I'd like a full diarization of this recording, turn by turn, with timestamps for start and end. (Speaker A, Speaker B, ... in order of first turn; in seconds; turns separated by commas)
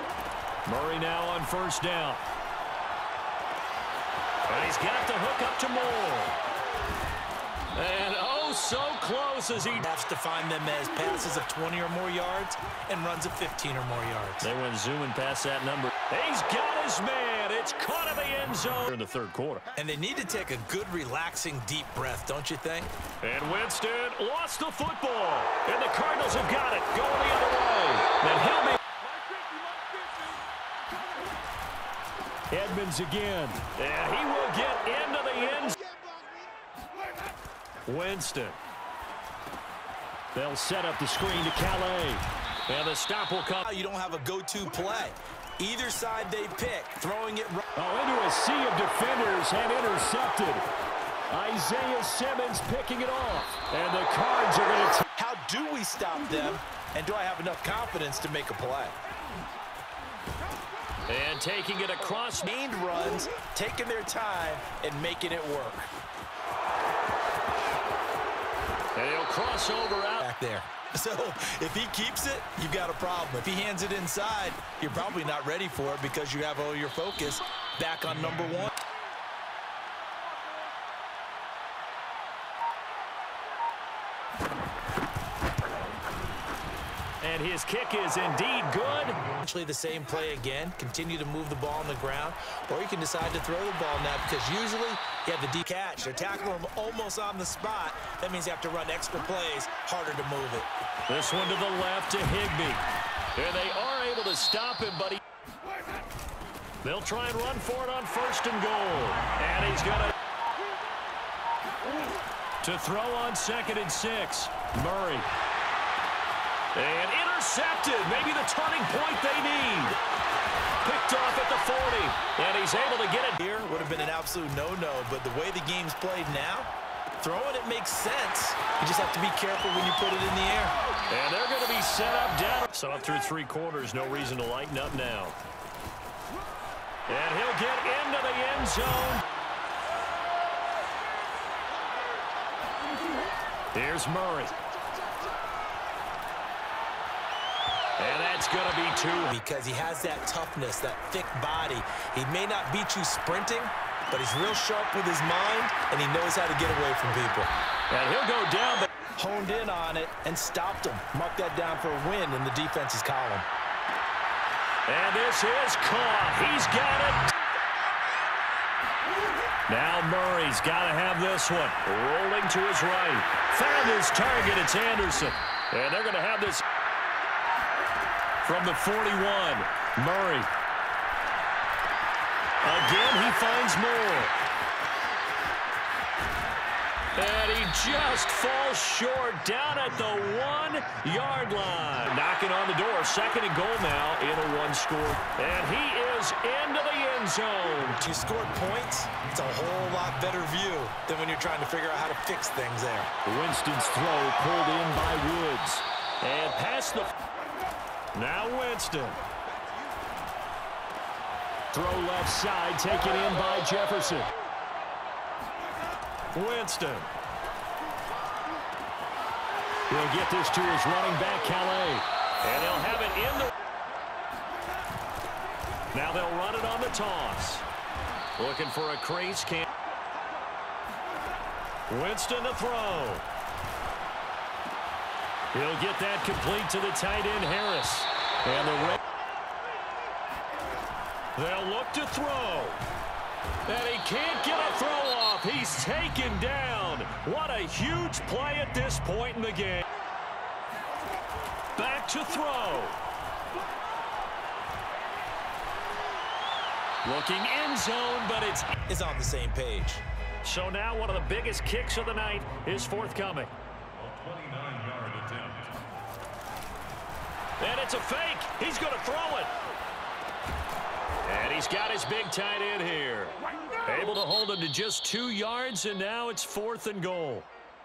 Speaker A: 0.7-2.2, Speaker A: 4.5-6.4, Speaker A: 7.8-9.9, Speaker B: 9.8-14.5, Speaker A: 14.4-19.7, Speaker B: 19.8-22.9, Speaker A: 23.2-28.8, Speaker A: 32.5-35.8, Speaker A: 37.9-38.6, Speaker A: 40.3-43.7, Speaker B: 43.6-47.6, Speaker A: 47.8-50.6, Speaker A: 51.3-55.1, Speaker B: 55.2-59.0, Speaker A: 61.1-62.5, Speaker B: 62.4-65.9, Speaker A: 69.0-70.3, Speaker B: 70.2-78.7, Speaker A: 87.2-89.2, Speaker B: 89.4-100.7, Speaker A: 101.1-102.8, Speaker A: 103.4-105.2, Speaker A: 106.8-110.1, Speaker A: 112.6-115.3, Speaker A: 116.8-120.0, Speaker A: 120.8-123.4, Speaker B: 123.4-126.7, Speaker B: 127.2-130.8, Speaker A: 131.1-135.4, Speaker A: 137.1-139.2, Speaker A: 143.7-144.6, Speaker A: 148.0-149.3, Speaker B: 149.3-157.5, Speaker A: 157.9-158.9, Speaker B: 159.2-163.5, Speaker A: 164.9-167.2, Speaker A: 169.7-176.6, Speaker A: 178.4-180.5, Speaker A: 182.6-184.3, Speaker A: 187.2-198.0, Speaker B: 198.0-203.1, Speaker A: 203.2-207.1, Speaker A: 208.1-209.2, Speaker A: 211.7-214.3, Speaker A: 216.3-217.1, Speaker A: 219.9-223.5, Speaker A: 225.9-227.7, Speaker A: 228.4-229.7, Speaker A: 231.9-233.2, Speaker A: 235.5-239.0, Speaker A: 241.3-242.8, Speaker A: 243.7-249.9, Speaker A: 251.8-253.0, Speaker A: 257.0-258.8, Speaker B: 258.9-260.0, Speaker A: 260.4-265.8, Speaker A: 267.6-269.5, Speaker A: 271.2-277.5